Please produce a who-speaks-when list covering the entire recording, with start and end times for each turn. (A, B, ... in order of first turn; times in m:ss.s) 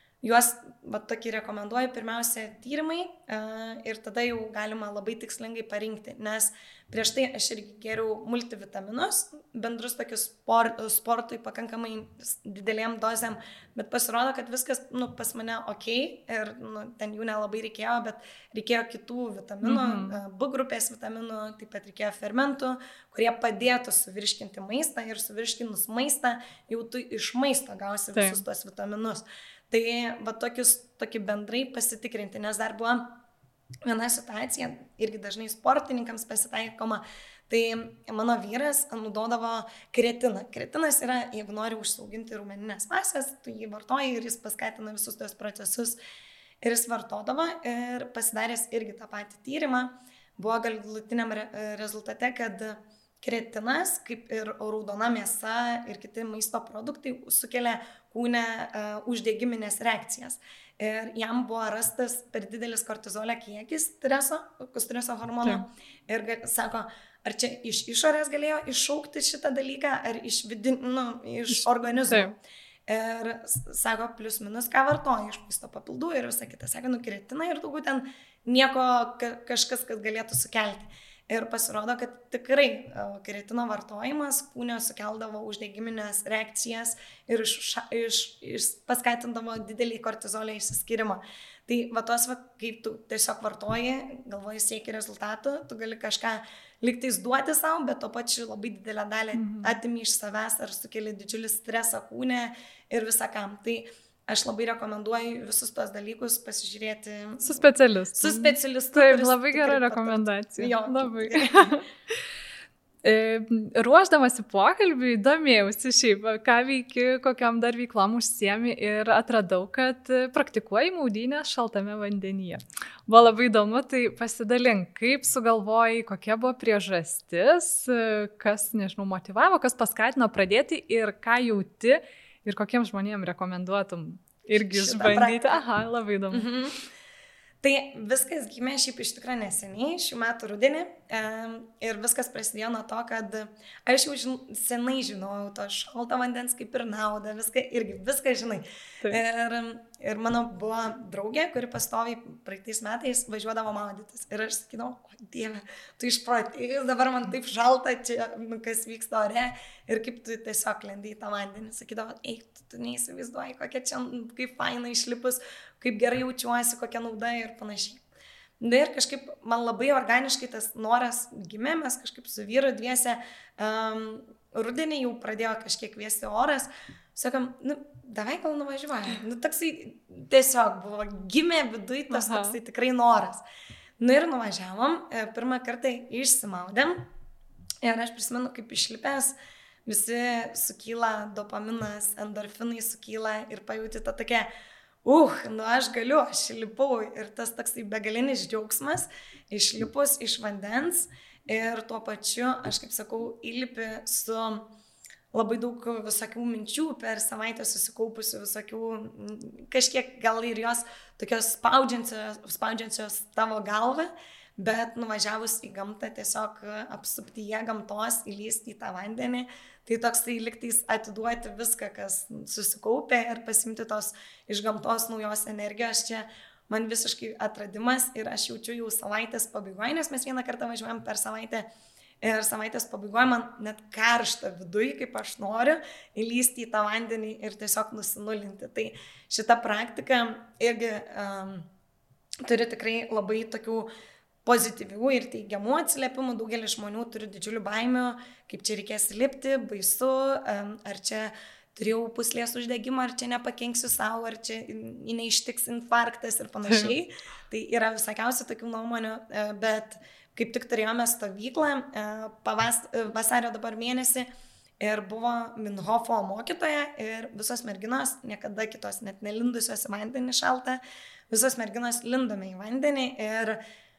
0:00.2-0:33.2 A
0:19.6-0:20.2 B
0:28.2-0:28.4 B
0:33.8-0:46.0 A
0:46.6-1:47.6 A
1:11.5-1:12.3 B
1:39.3-1:39.8 B
1:47.4-1:51.9 B
1:48.2-1:51.7 A
1:53.0-2:16.5 B
2:14.7-2:15.6 A
2:16.3-2:16.8 A
2:17.6-2:48.0 A
2:48.6-3:03.4 A
3:02.1-3:02.6 B
3:04.0-3:07.1 A
3:07.8-3:14.5 A
3:15.0-3:24.7 A
3:25.3-3:51.7 A
3:52.2-4:01.7 A
4:02.4-4:03.9 A
4:04.4-4:24.3 A
4:16.7-4:16.9 B
4:24.8-4:33.6 A